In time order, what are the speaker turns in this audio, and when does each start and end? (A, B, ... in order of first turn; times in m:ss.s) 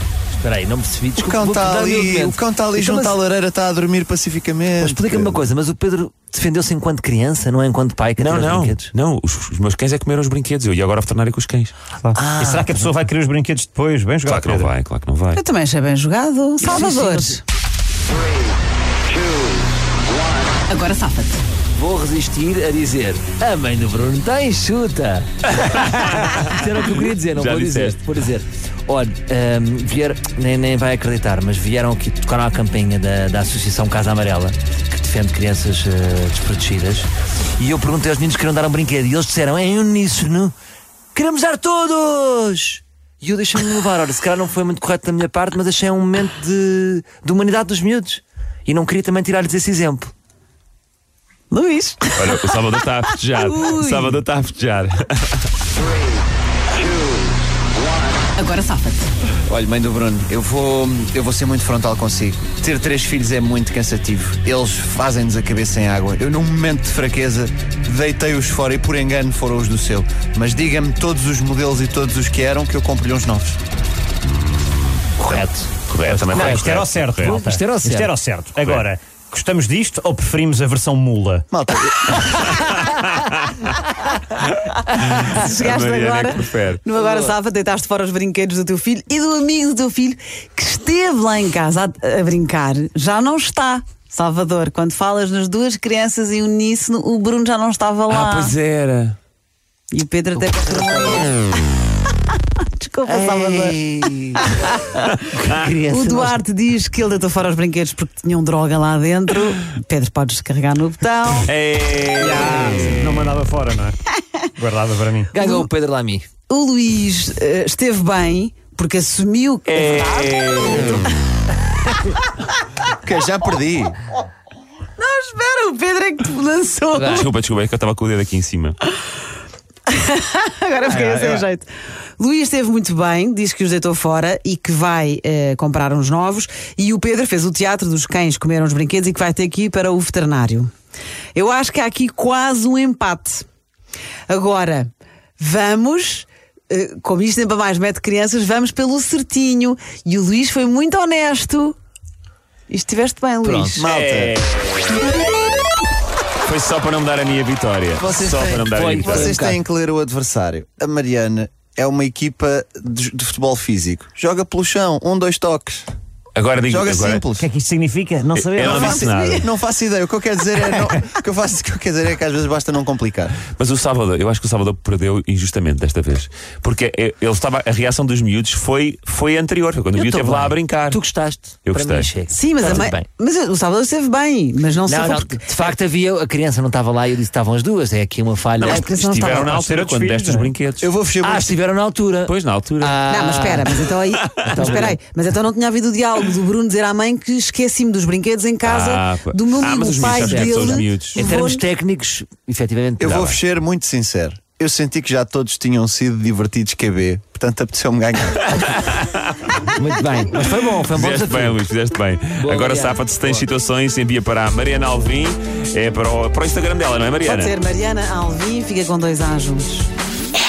0:00.4-0:03.2 A
0:01.2-0:05.4 B
0:04.8-0:08.9 A
0:08.2-0:11.7 C
0:12.0-0:14.7 D
0:12.1-0:12.8 A
0:14.3-0:15.4 C
0:15.3-0:17.4 E
0:16.6-0:17.4 A
0:20.7-0:21.4 E
0:21.7-0:40.5 A
0:25.8-0:26.6 C
0:27.2-0:28.0 C
0:41.2-0:50.1 A
0:51.5-0:52.8 E
0:52.2-0:55.0 C
0:53.3-0:54.2 E
0:58.4-0:59.1 E
0:59.5-1:13.6 B
1:14.2-1:17.4 C
1:15.2-1:18.2 A
1:16.3-1:21.4 D
1:18.6-1:18.9 C
1:21.5-1:22.5 B
1:22.5-1:23.6 C
1:25.1-1:26.8 C
1:25.3-1:38.6 E
1:27.0-1:27.3 A
1:38.1-1:39.2 C
1:39.9-1:41.4 E
1:40.4-1:41.3 A
1:42.6-1:43.8 E
1:43.1-1:44.4 A
1:45.3-1:46.4 A
1:45.9-1:51.5 E
1:51.5-1:53.3 C
1:52.2-1:53.9 D
1:54.6-1:55.3 D
1:55.3-1:56.3 A
1:55.4-1:55.7 E
1:56.5-2:00.9 E
1:59.7-2:01.1 C
2:03.0-2:04.0 B
2:05.0-2:07.3 E
2:07.0-2:07.3 A
2:07.1-2:08.8 C
2:09.9-2:20.7 E
2:10.9-2:11.4 A
2:21.3-2:23.5 E
2:24.3-2:31.8 E
2:32.7-2:33.9 E
2:33.4-2:33.8 A
2:33.8-2:34.4 B
2:33.9-2:34.4 C
2:36.4-2:39.4 C
2:38.0-2:45.9 B
2:38.7-2:39.6 A
2:46.4-2:47.2 C
2:46.7-2:47.5 B
2:47.4-2:49.0 D
2:48.4-2:49.5 C
2:48.6-2:53.4 B
2:48.7-2:49.5 E
2:53.4-3:01.0 C
3:00.0-3:03.1 A
3:01.7-3:02.1 C
3:02.3-3:05.4 E
3:04.9-3:08.9 A
3:08.6-3:10.9 C
3:08.7-3:09.6 E
3:09.6-3:10.4 D
3:10.8-3:11.6 B
3:11.2-3:13.9 A
3:12.3-3:13.0 C
3:13.1-3:21.6 E
3:14.1-3:14.8 C
3:14.5-3:15.0 A
3:18.6-3:21.2 C
3:20.0-3:23.4 A
3:23.0-3:28.5 B
3:28.9-3:29.5 C
3:29.8-3:31.6 A
3:30.8-3:37.6 C
3:32.4-3:33.0 A
3:37.2-3:39.9 E